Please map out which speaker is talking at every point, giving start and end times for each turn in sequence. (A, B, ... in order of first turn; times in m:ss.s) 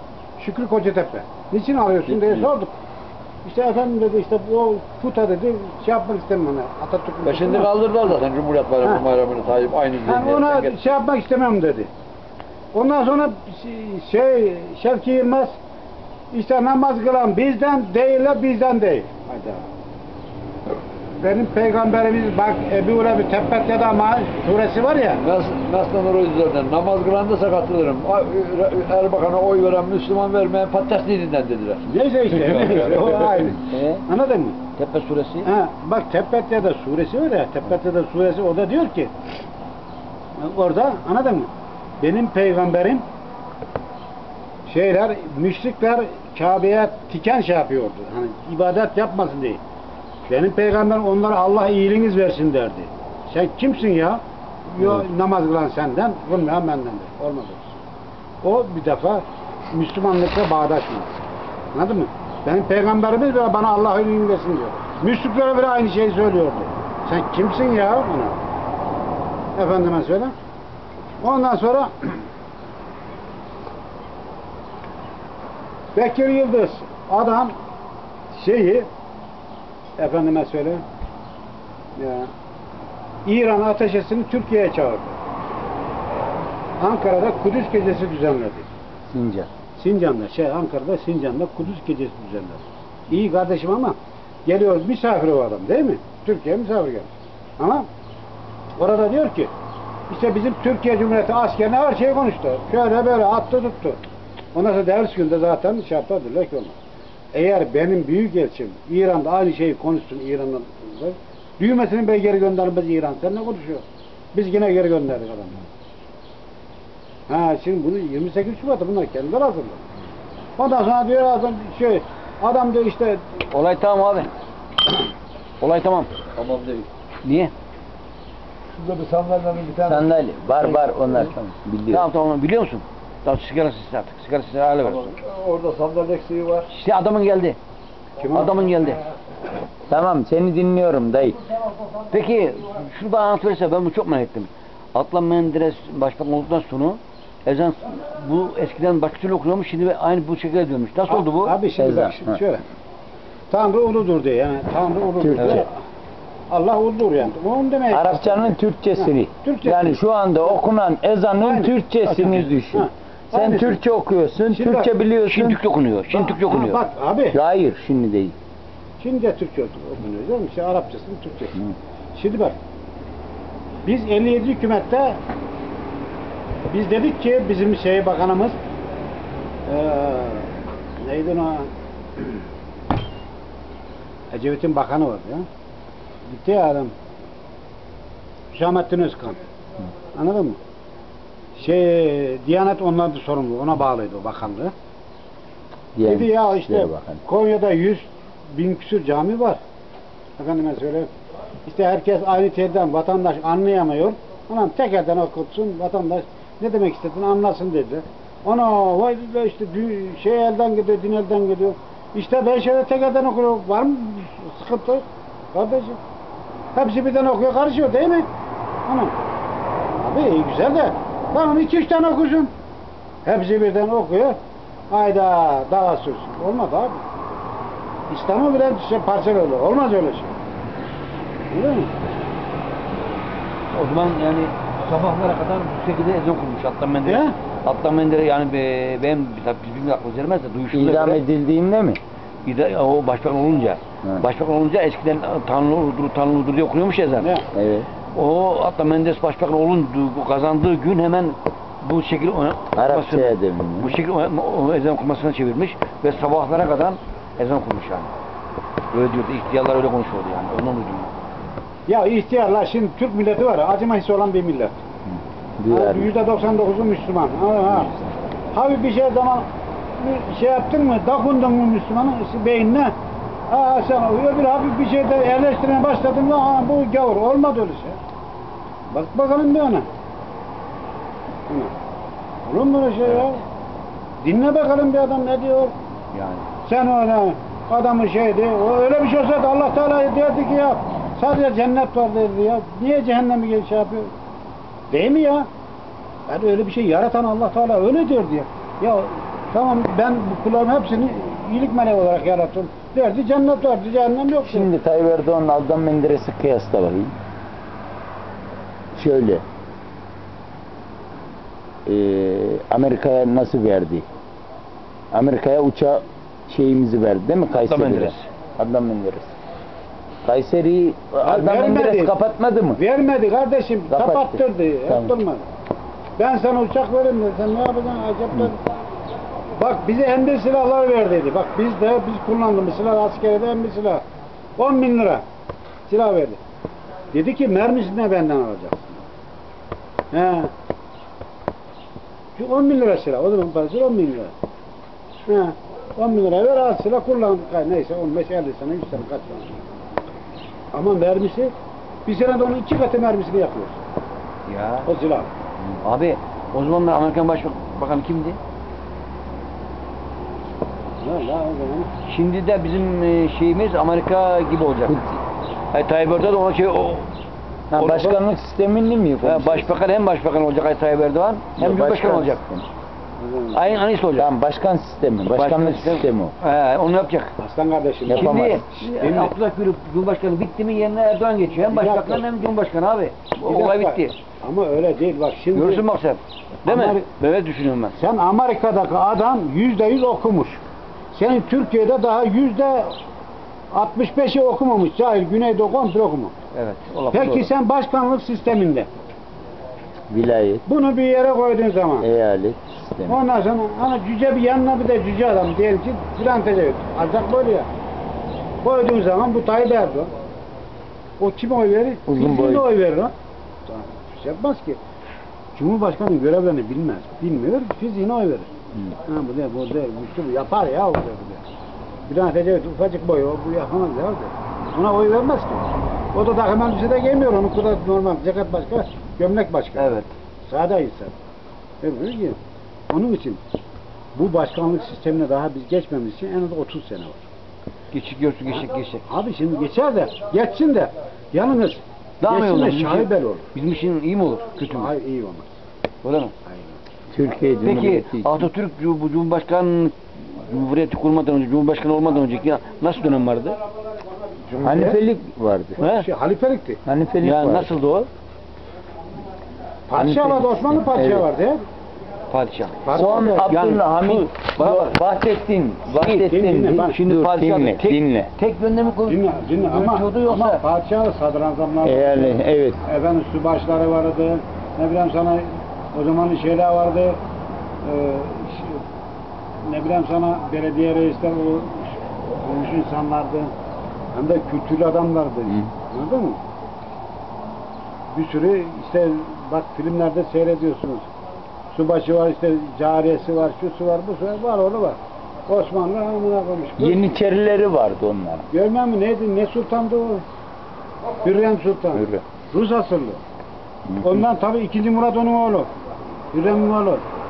0:00.4-0:02.7 A
0:02.1-0:02.5 B
0:03.4-0:07.7 A
0:07.2-0:10.8 B
0:10.0-0:11.9 A
0:12.7-0:15.6 A
0:16.3-0:19.6 A
0:21.2-0:25.2 A
0:25.2-0:33.6 B
0:31.8-0:34.6 A
0:33.7-0:34.0 C
0:34.8-0:35.5 C
0:35.4-0:39.1 A
0:40.4-0:41.5 A
0:42.0-0:43.0 A
0:44.7-0:49.6 A
0:50.2-0:57.7 A
0:58.4-1:01.1 A
1:01.7-1:08.4 A
1:09.6-1:10.3 A
1:11.2-1:11.9 A
1:15.9-1:17.5 A
1:18.3-1:18.9 A
1:20.0-1:20.8 A
1:22.0-1:22.3 A
1:23.2-1:25.2 A
1:26.8-1:28.7 A
1:29.1-1:29.5 C
1:29.8-1:37.9 A
1:38.8-1:39.5 A
1:40.1-1:44.0 A
1:44.5-1:46.8 A
1:47.3-1:55.6 A
1:57.3-1:59.8 A
2:00.6-2:03.2 A
2:03.5-2:04.3 C
2:05.6-2:06.1 C
2:06.4-2:06.9 B
2:07.2-2:07.5 C
2:08.7-2:10.1 B
2:09.8-2:12.0 D
2:11.9-2:15.1 C
2:14.8-2:16.7 B
2:16.7-2:17.6 C
2:18.2-2:18.6 A
2:18.3-2:19.0 C
2:19.9-2:21.4 D
2:22.1-2:31.6 C
2:31.1-2:32.6 A
2:31.8-2:32.4 D
2:33.5-2:35.7 A
2:35.2-2:35.7 D
2:35.4-2:35.6 C
2:36.5-2:40.6 A
2:37.9-2:45.6 D
2:41.4-2:41.7 A
2:42.0-2:42.5 C
2:42.7-2:43.8 A
2:44.5-2:44.9 A
2:45.2-2:46.8 C
2:46.1-2:47.4 A
2:47.3-2:48.3 D
2:49.0-2:51.6 A
2:52.1-2:52.6 A
2:53.8-2:55.2 A
2:56.7-2:58.6 A
2:59.7-3:02.4 A
3:04.3-3:05.4 A
3:06.2-3:06.9 A
3:08.5-3:09.4 A
3:10.1-3:10.6 A
3:11.5-3:14.7 A
3:15.9-3:17.2 D
3:16.0-3:19.6 A
3:20.4-3:21.1 A
3:21.6-3:36.0 A
3:36.7-3:38.3 A
3:38.8-3:39.1 A
3:40.0-3:42.5 A
3:43.2-3:44.4 A
3:44.9-3:47.0 A
3:48.1-3:50.3 A
3:51.5-3:51.9 A
3:53.7-4:01.2 C
3:57.0-3:57.3 A
4:00.7-4:02.0 D
4:02.4-4:07.3 C
4:07.2-4:07.5 A
4:07.5-4:07.9 D
4:08.1-4:18.1 C
4:12.7-4:14.0 D
4:18.9-4:21.1 C
4:21.9-4:24.8 A
4:25.1-4:26.1 D
4:25.7-4:28.0 A
4:28.5-4:29.4 A
4:30.0-4:32.9 A
4:33.5-4:38.0 A
4:38.9-4:39.9 A
4:41.5-4:41.7 A
4:42.4-4:43.4 A
4:44.2-4:45.7 A
4:46.1-4:46.5 C
4:46.6-4:54.1 A
4:54.9-4:55.5 A
4:56.3-5:04.7 A
5:04.4-5:07.2 D
5:08.9-5:09.4 D
5:11.8-5:14.0 D
5:15.1-5:19.3 D
5:17.5-5:18.2 C
5:20.2-5:22.8 D
5:21.2-5:22.1 A
5:22.7-5:25.5 A
5:23.9-5:25.1 D
5:26.2-5:28.6 A
5:29.6-5:34.0 A
5:34.6-5:35.2 A
5:35.9-5:36.4 A
5:37.1-5:39.0 A
5:40.1-5:40.5 A
5:42.4-5:44.3 A
5:45.2-5:49.6 A
5:50.7-5:51.5 A
5:52.0-5:53.8 A
5:54.4-5:54.9 C
5:54.8-5:55.3 A
5:55.8-5:58.4 C
6:01.0-6:01.9 A
6:02.0-6:05.0 C
6:04.9-6:05.2 D
6:05.7-6:07.1 C
6:07.7-6:09.8 D
6:07.7-6:08.2 C
6:09.2-6:12.4 C
6:11.6-6:12.6 D
6:13.2-6:13.7 A
6:13.5-6:14.3 C
6:14.2-6:16.3 D
6:15.3-6:17.3 C
6:17.4-6:19.3 A
6:18.1-6:18.6 D
6:18.1-6:24.2 C
6:21.7-6:22.2 A
6:23.4-6:25.8 A
6:25.5-6:28.0 C
6:26.6-6:27.0 A
6:28.0-6:33.0 A
6:33.7-6:36.3 A
6:36.5-6:37.5 C
6:37.1-6:38.9 A
6:40.1-6:40.6 D
6:40.6-6:42.1 A
6:42.0-6:43.2 D
6:43.1-6:47.7 A
6:48.6-6:50.1 A
6:51.2-6:53.1 A
6:52.1-6:52.6 D
6:53.7-6:54.8 A
6:55.5-6:58.5 A
6:59.0-7:01.4 A
7:02.1-7:11.1 A
7:09.8-7:10.1 C
7:11.8-7:12.4 A
7:12.9-7:13.4 A
7:14.1-7:17.2 A
7:17.9-7:19.0 C
7:19.1-7:23.4 A
7:22.2-7:24.9 C
7:24.6-7:25.5 A
7:26.0-7:26.3 C
7:26.4-7:26.8 A
7:27.1-7:28.4 D
7:27.6-7:33.6 C
7:34.4-7:35.0 A
7:34.6-7:35.8 D
7:35.8-7:36.8 A
7:35.8-7:36.0 C
7:36.8-7:37.7 D
7:37.2-7:38.1 C
7:39.9-7:41.6 A
7:39.9-7:41.3 D
7:42.3-7:45.0 C
7:42.8-7:43.5 A
7:42.9-7:48.3 D
7:45.9-7:46.3 C
7:46.2-7:47.0 A
7:46.9-7:50.6 C
7:49.0-7:57.2 A
7:51.8-7:52.8 D
7:57.8-7:58.8 A
7:59.6-8:03.5 A
8:04.1-8:06.4 A
8:08.1-8:11.0 A
8:11.7-8:17.0 A
8:16.8-8:18.5 D
8:18.5-8:20.2 A
8:21.2-8:23.2 A
8:21.9-8:22.2 D
8:24.0-8:25.7 A
8:26.3-8:27.0 A